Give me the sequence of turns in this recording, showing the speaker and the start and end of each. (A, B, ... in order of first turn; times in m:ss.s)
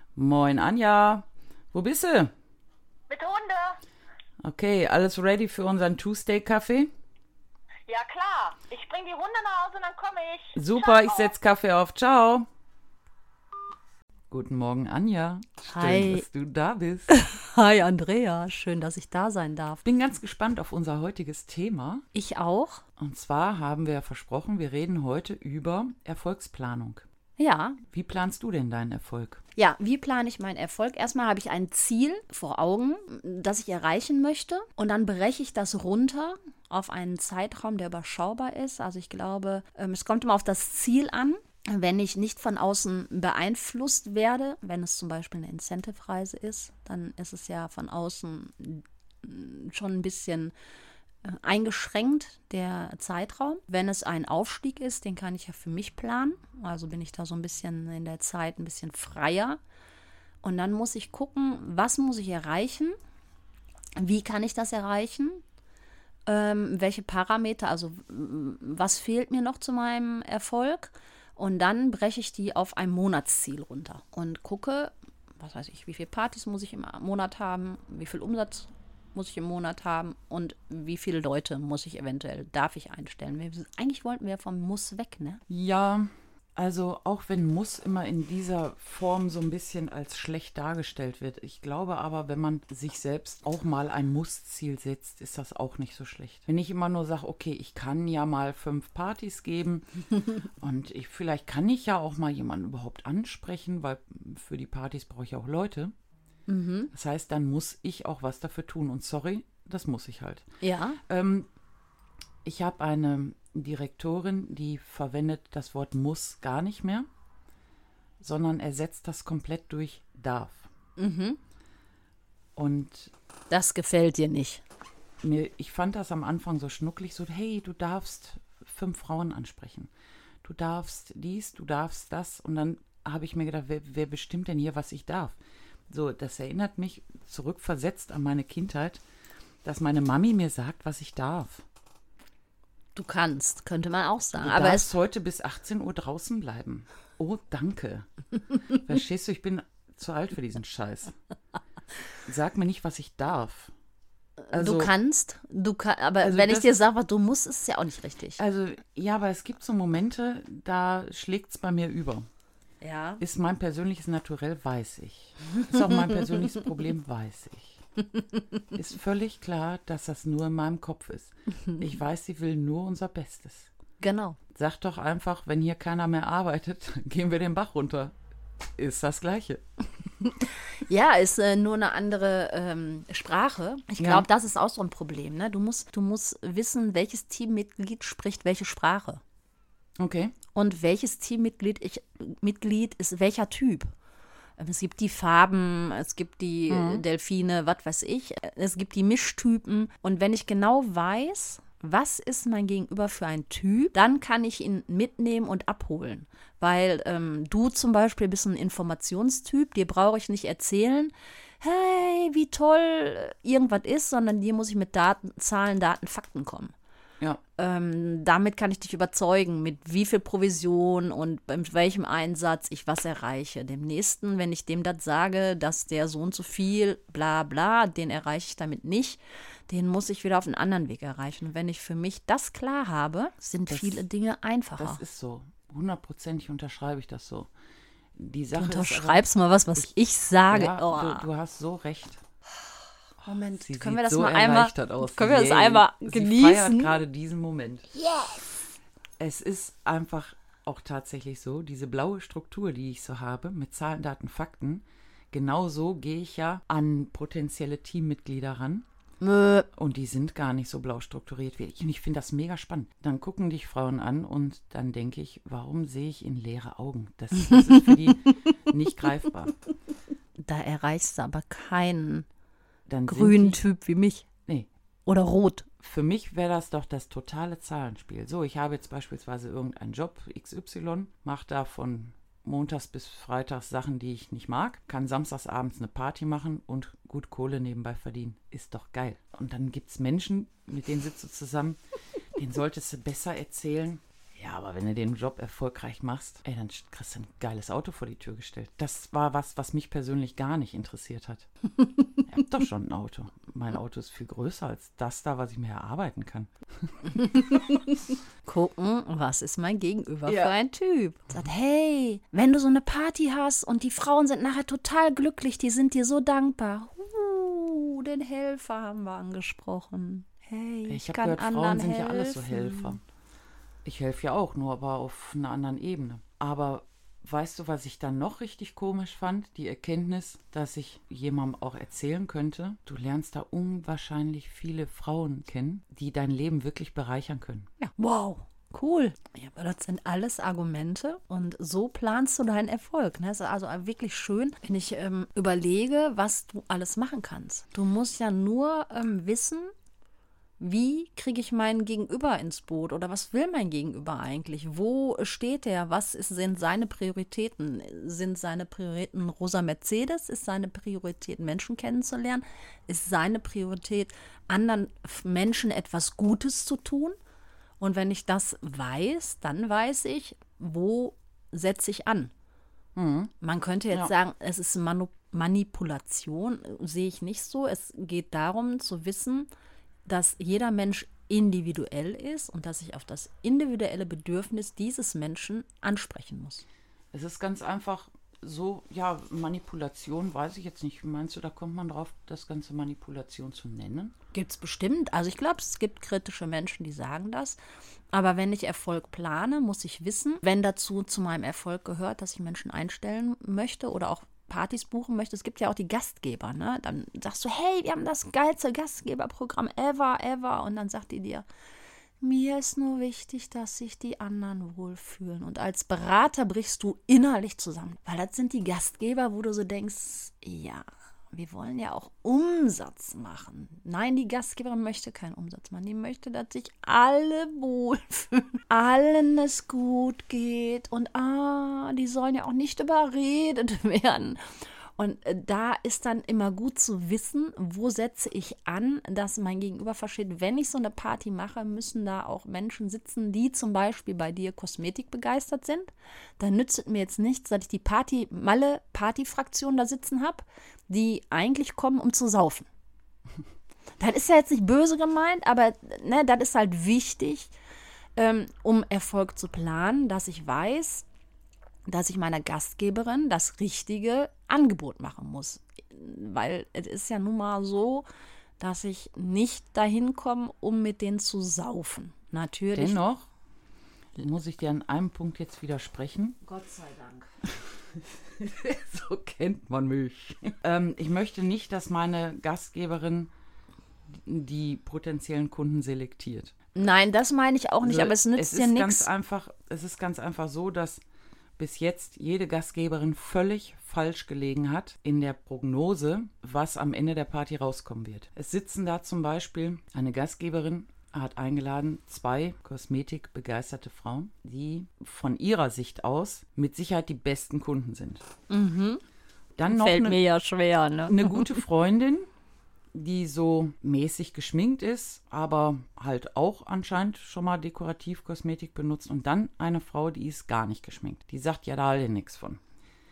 0:00.2-0:02.3 A
0:03.1-0:03.8 B
0:04.4-0:06.9 A
0:07.9-0:11.3 B
0:10.6-0:12.5 A
0:14.3-0:17.2 A
0:15.7-0:16.2 C
0:17.1-0:19.8 C
0:19.8-0:22.0 A
0:22.1-0:22.8 C
0:23.0-0:27.0 A
0:27.4-0:27.8 C
0:27.9-0:29.4 A
0:29.6-0:50.5 C
0:51.2-0:59.6 C
1:00.4-1:03.0 C
1:04.0-1:05.4 C
1:06.3-1:25.4 C
1:25.5-1:39.9 A
1:40.6-1:45.9 A
1:46.5-1:46.9 C
1:46.9-1:50.5 A
1:50.6-1:51.0 C
1:51.1-1:51.5 A
1:52.4-1:57.1 A
1:58.2-2:00.7 A
2:01.0-2:01.4 C
2:02.6-2:03.1 A
2:03.5-2:04.6 C
2:05.2-2:09.9 A
2:10.4-2:15.4 A
2:15.9-2:19.0 A
2:19.6-2:21.6 A
2:23.0-2:24.9 C
2:24.4-2:28.1 A
2:28.7-2:31.2 A
2:32.3-2:33.7 A
2:34.5-2:38.4 C
2:34.5-2:34.9 A
2:36.2-2:36.7 A
2:38.4-2:42.3 A
2:42.8-2:43.2 C
2:43.2-2:47.8 A
2:48.7-2:53.7 A
2:54.0-2:54.4 C
2:54.5-2:58.2 A
2:58.8-2:59.6 A
3:00.4-3:09.2 C
3:04.0-3:04.3 A
3:10.0-3:10.3 A
3:10.6-3:13.9 C
3:14.6-3:36.7 C
3:16.7-3:17.0 A
3:37.6-3:55.0 C
3:53.7-3:54.0 A
3:54.8-3:57.5 A
3:58.2-3:59.2 A
3:58.5-4:01.3 C
4:00.5-4:02.2 A
4:03.2-4:07.0 C
4:03.2-4:07.9 A
4:08.0-4:08.4 C
4:09.2-4:18.9 A
4:19.2-4:19.7 C
4:19.7-4:29.6 A
4:27.4-4:27.8 C
4:30.4-4:32.3 C
4:32.9-4:33.6 A
4:33.1-4:34.3 C
4:35.1-4:35.7 C
4:35.8-4:51.8 A
4:52.4-5:01.5 A
5:01.8-5:02.2 C
5:02.3-5:06.9 A
5:07.2-5:23.0 C
5:10.3-5:10.5 A
5:20.9-5:23.0 A
5:23.8-5:37.7 A
5:37.8-5:49.7 C
5:50.6-6:07.2 C
6:07.8-6:12.3 C
6:13.0-6:13.3 A
6:13.4-6:19.5 C
6:20.1-6:26.6 C
6:27.1-6:34.2 A
6:34.3-6:37.6 C
6:38.1-6:51.4 C
6:52.2-7:14.4 C
7:15.0-7:32.7 C
7:34.0-7:37.5 C
7:38.2-7:41.1 C
7:41.9-7:48.0 C
7:48.6-7:53.0 C
7:52.8-7:53.3 A
7:54.2-7:56.4 A
7:56.4-7:57.4 C
7:57.5-8:03.3 A
8:04.1-8:06.6 A
8:06.8-8:09.1 C
8:07.8-8:11.0 A
8:11.6-8:28.2 A
8:28.5-8:29.0 C
8:29.6-8:30.2 A
8:29.7-8:31.6 C
8:31.1-8:32.3 A
8:32.9-8:42.6 A